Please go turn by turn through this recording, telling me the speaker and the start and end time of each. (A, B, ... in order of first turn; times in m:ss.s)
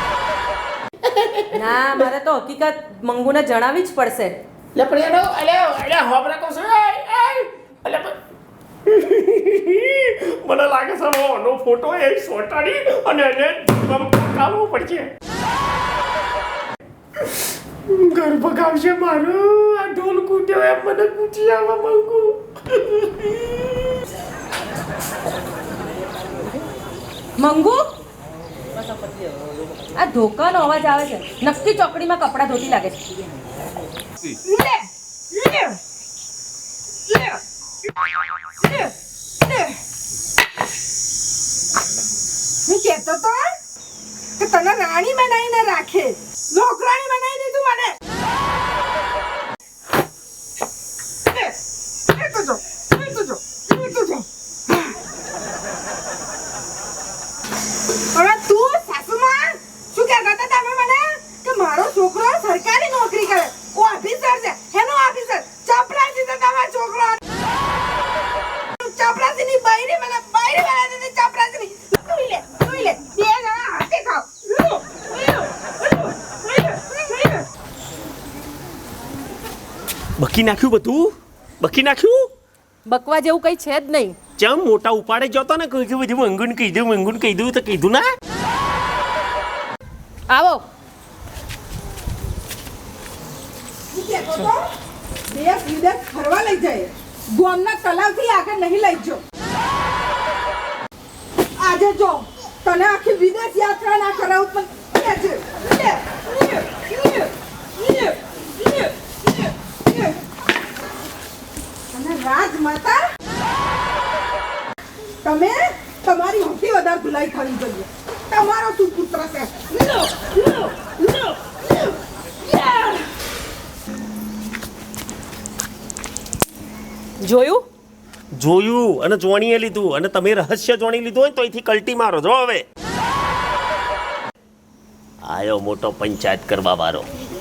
0:01.0-0:02.1 A
0:01.5-0:04.4 B
0:04.8-0:08.2 A
0:08.9-0:15.1 A
0:17.2-0:23.9 A
0:27.4-0:27.8 B
0:30.0-0:33.1 B
0:34.4-0:35.8 C
0:37.1-0:37.4 C
0:38.6-0:39.8 C
0:42.7-0:43.5 C
0:44.4-0:48.0 C
0:52.1-0:55.0 C
0:58.1-1:07.2 C
1:08.8-1:17.4 C
1:20.2-1:22.3 A
1:22.8-1:24.2 B
1:24.4-1:28.1 A
1:30.3-1:30.6 B
1:33.9-1:34.7 C
1:35.3-1:39.2 C
1:41.6-1:50.2 C
1:51.9-1:53.0 C
1:55.2-2:03.0 C
2:07.2-2:07.6 B
2:08.3-2:12.6 A
2:15.2-2:17.1 A